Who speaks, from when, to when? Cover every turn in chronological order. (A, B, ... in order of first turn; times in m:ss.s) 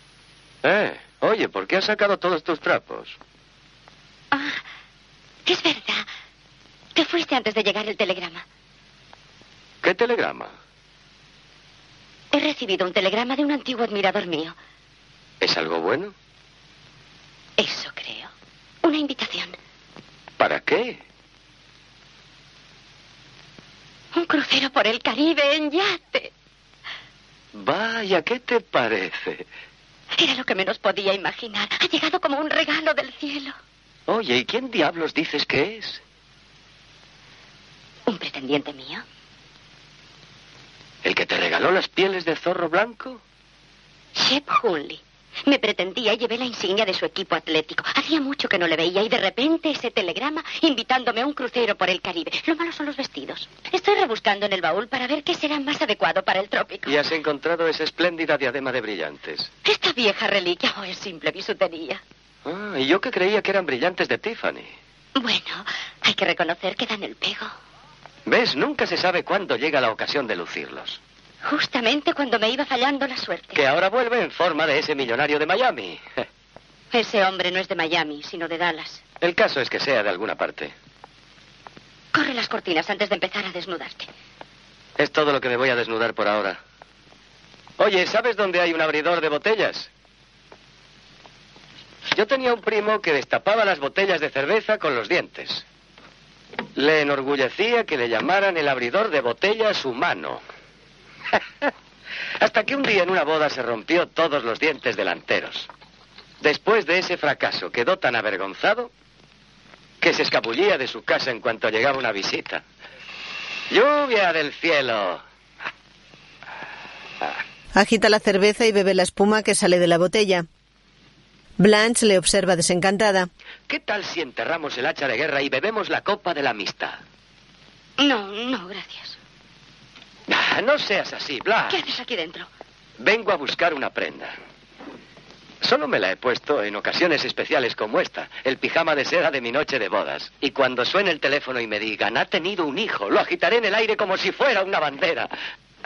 0:00.6-0:03.2 A
0:04.3-0:04.6 B
0:05.4-0:06.1 B
0:06.9-0:08.4 B
0:09.8-0:10.5 A
0:12.3-0:14.6 B
0:15.4-0:16.1 A
0:17.6-0:18.3 B
0:18.8-0:19.6 B
0:20.4-0:21.0 A
0:24.1-0:26.3 B
0:27.5-0:29.5 A
0:30.1-0:33.6 B
0:34.1-0:36.0 A
0:38.1-0:39.0 B
0:41.0-0:43.2 A
0:44.1-0:57.0 B
0:56.8-0:59.5 A
0:59.6-1:02.0 B
1:02.4-1:04.7 A
1:05.2-1:07.5 B
1:08.2-1:11.0 A
1:11.4-1:13.6 B
1:13.5-1:16.0 A
1:16.9-1:19.0 B
1:19.2-1:20.7 A
1:22.1-1:24.1 B
1:25.0-1:26.6 A
1:27.8-1:29.9 A
1:32.1-1:35.6 A
1:36.8-1:40.4 A
1:42.4-1:45.7 A
1:46.4-1:48.9 A
1:50.0-1:52.6 A
1:53.7-1:55.2 A
1:57.7-2:00.4 C
2:01.6-2:03.3 C
2:03.7-2:07.0 A
2:08.0-2:09.2 B
2:10.3-2:11.8 A
2:11.7-2:12.5 B
2:13.0-2:14.4 A
2:15.6-2:25.3 A